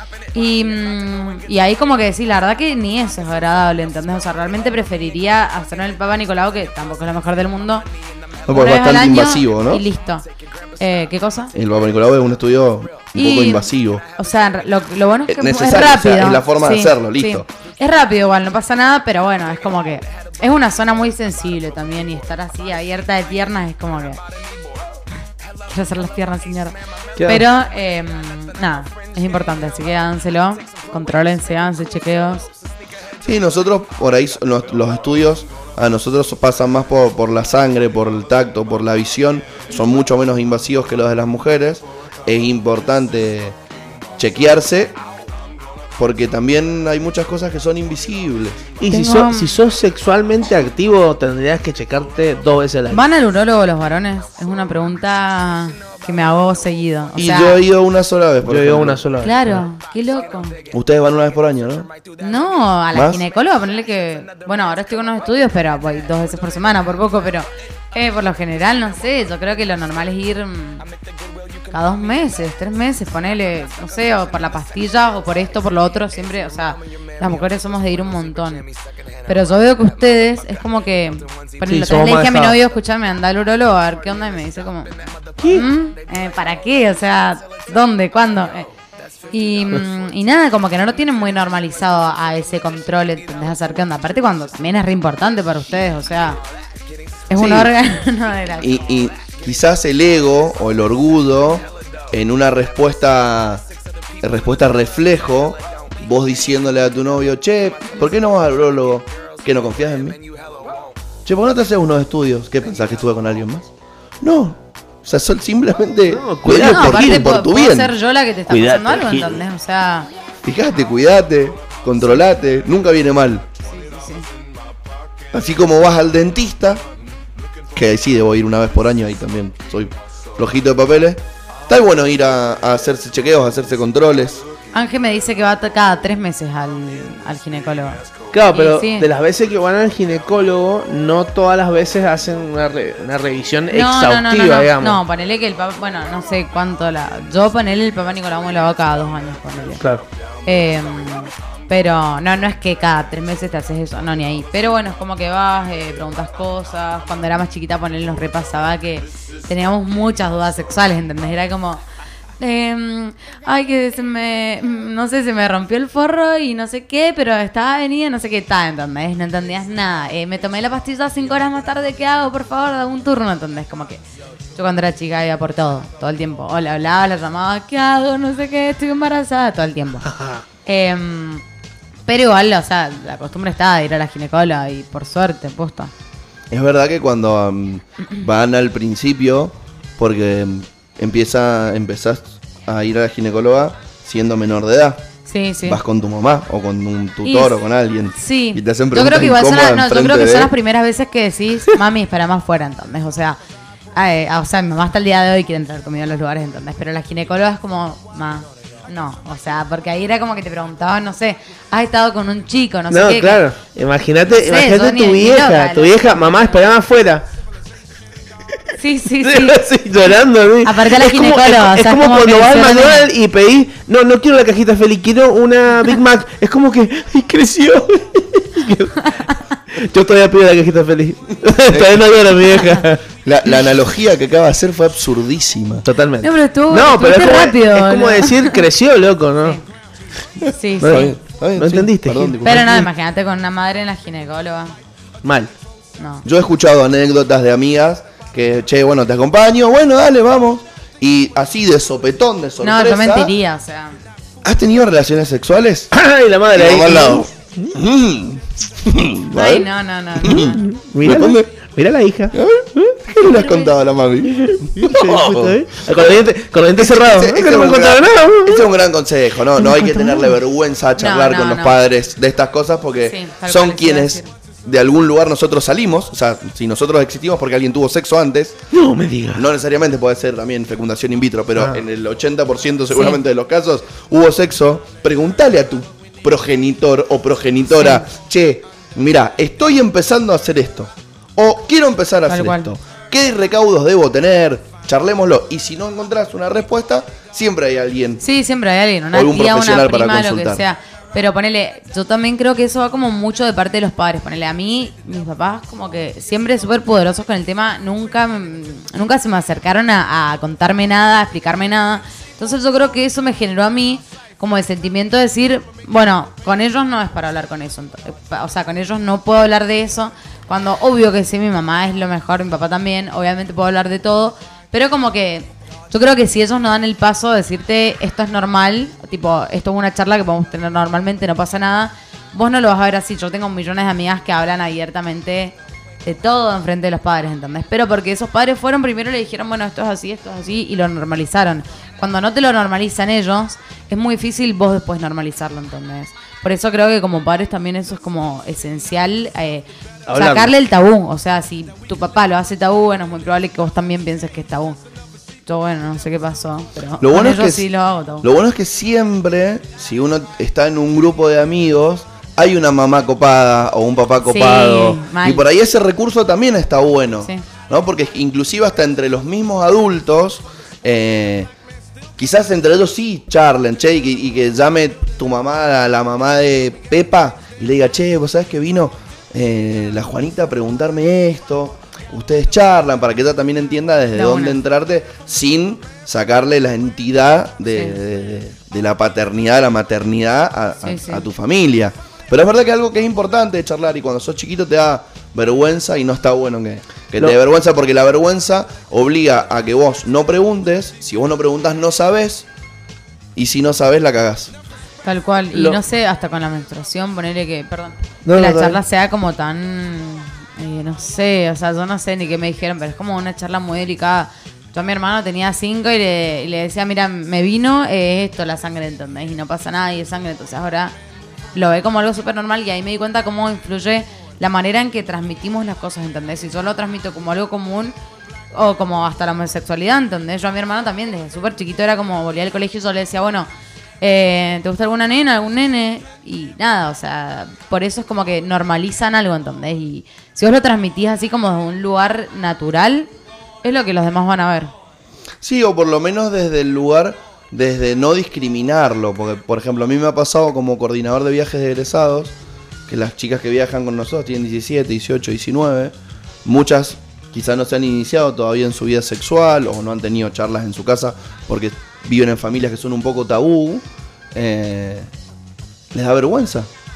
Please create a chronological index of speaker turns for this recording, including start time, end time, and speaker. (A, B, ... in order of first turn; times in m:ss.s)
0:00.3-0:07.9 A
0:08.5-0:09.8 B
0:08.5-0:10.3 A
0:10.8-0:11.5 A
0:11.5-0:14.0 B
0:13.1-0:24.2 A
0:15.3-0:17.5 B
0:25.7-0:32.5 A
0:27.2-0:27.4 C
0:33.2-0:43.6 B
0:44.2-0:45.0 B
0:46.0-0:48.6 B
0:48.8-0:53.0 C
0:48.9-0:49.5 A
0:52.9-0:57.6 A
0:57.2-0:59.0 B
0:58.4-0:59.6 C
0:59.2-1:00.6 A
1:00.7-1:01.9 B
1:02.2-1:10.8 A
1:02.9-1:03.2 B
1:11.7-1:18.7 A
1:19.3-1:28.7 A
1:21.7-1:22.6 C
1:25.4-1:25.7 C
1:29.3-1:36.4 A
1:37.3-1:38.8 A
1:37.4-1:37.7 B
1:38.6-1:43.6 B
1:44.2-1:50.2 B
1:51.3-1:53.7 B
1:54.2-1:57.9 B
1:56.1-1:57.3 C
1:56.5-2:00.1 A
1:58.5-1:59.4 C
2:00.4-2:03.5 B
2:03.7-2:04.3 A
2:05.3-2:06.8 B
2:07.7-2:14.5 B
2:14.7-2:19.1 A
2:18.3-2:25.0 C
2:23.7-2:29.8 A
2:29.8-2:30.0 C
2:30.4-2:41.8 A
2:42.4-2:54.0 A
2:54.6-3:00.1 A
3:00.1-3:00.4 C
3:00.7-3:01.4 A
3:02.1-3:05.9 A
3:06.5-3:15.0 B
3:15.3-3:15.8 A
3:15.6-3:20.5 B
3:17.2-3:17.6 A
3:18.2-3:23.4 A
3:24.0-3:33.5 A
3:32.9-3:37.3 C
3:34.3-3:36.6 A
3:38.8-3:39.6 A
3:39.2-3:49.0 C
3:40.6-3:43.1 A
3:49.7-3:53.0 C
3:51.7-3:52.0 B
3:53.2-3:55.9 B
3:55.8-3:59.6 C
3:56.2-3:58.7 A
4:00.4-4:01.2 A
4:00.8-4:02.8 C
4:00.8-4:02.9 B
4:02.4-4:04.8 A
4:05.2-4:05.5 C
4:06.0-4:06.2 A
4:06.2-4:13.3 B
4:12.6-4:14.0 A
4:14.4-4:15.9 B
4:15.9-4:17.8 C
4:16.5-4:19.7 B
4:19.3-4:20.6 A
4:20.2-4:21.5 B
4:20.3-4:23.0 C
4:22.3-4:25.7 B
4:23.4-4:23.7 A
4:24.3-4:28.7 C
4:26.8-4:38.6 B
4:29.6-4:30.3 C
4:31.0-4:31.8 A
4:33.1-4:34.3 A
4:38.7-4:39.5 C
4:39.3-4:58.2 B
4:42.9-4:43.2 A
4:47.8-4:48.0 A
4:52.3-4:52.7 A
4:58.2-5:54.8 A
4:59.1-5:00.6 B
5:50.1-5:50.5 C
5:55.5-5:58.3 A
5:57.0-5:57.7 B
5:58.2-6:11.5 B
6:04.2-6:05.4 A
6:12.2-6:42.5 B
6:24.2-6:24.6 A
6:30.8-6:31.3 A
6:43.4-6:44.5 B
6:45.0-7:00.9 A
6:45.5-6:45.8 C
6:48.2-6:48.8 C
7:01.6-7:07.9 A
7:08.5-7:13.5 A
7:14.0-7:23.1 A
7:23.6-7:24.7 A
7:25.4-7:32.3 B
7:32.9-7:35.9 B
7:36.4-7:45.1 B
7:45.9-7:46.7 B